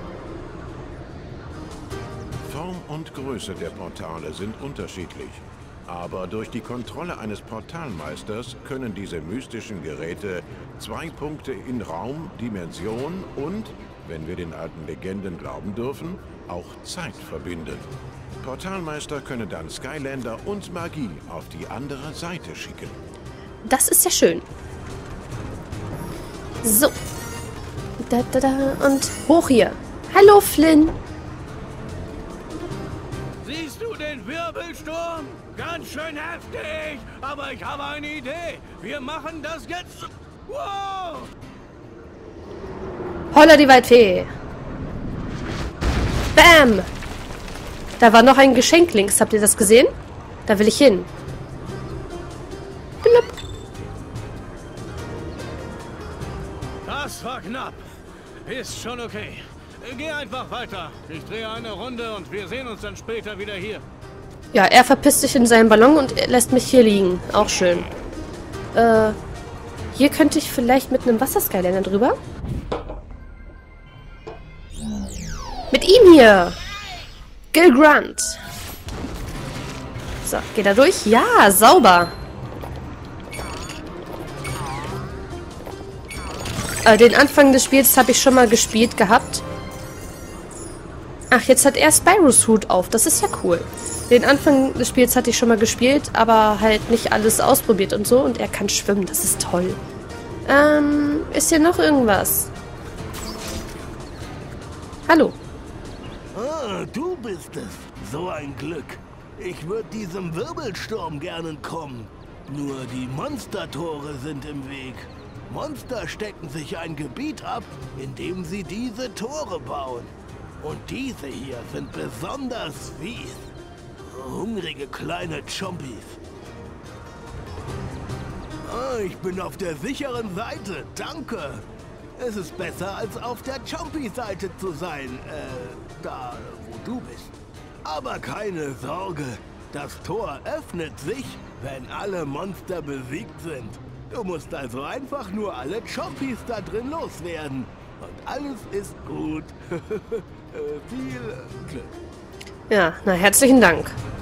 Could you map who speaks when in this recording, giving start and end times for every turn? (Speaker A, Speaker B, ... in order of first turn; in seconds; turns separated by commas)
Speaker A: 2.5-17.9, Speaker A: 18.4-23.0, Speaker B: 23.6-24.5, Speaker B: 26.6-26.9, Speaker B: 28.0-31.0, Speaker C: 33.4-41.3, Speaker B: 43.3-44.3, Speaker B: 46.4-46.9, Speaker B: 48.0-49.9, Speaker B: 50.5-51.1, Speaker B: 53.0-53.3, Speaker C: 56.9-57.8, Speaker C: 58.5-63.8, Speaker B: 64.5-67.9, Speaker B: 68.7-69.2, Speaker B: 69.9-72.2, Speaker B: 75.7-76.6, Speaker B: 77.5-78.4, Speaker B: 80.2-82.1, Speaker B: 86.8-89.5, Speaker B: 91.3-99.8, Speaker B: 100.5-102.5, Speaker B: 105.1-105.4, Speaker D: 106.3-123.5, Speaker D: 124.1-126.2, Speaker D: 128.6-131.7, Speaker D: 132.2-137.3, Speaker D: 137.8-151.9, Speaker B: 152.7-153.9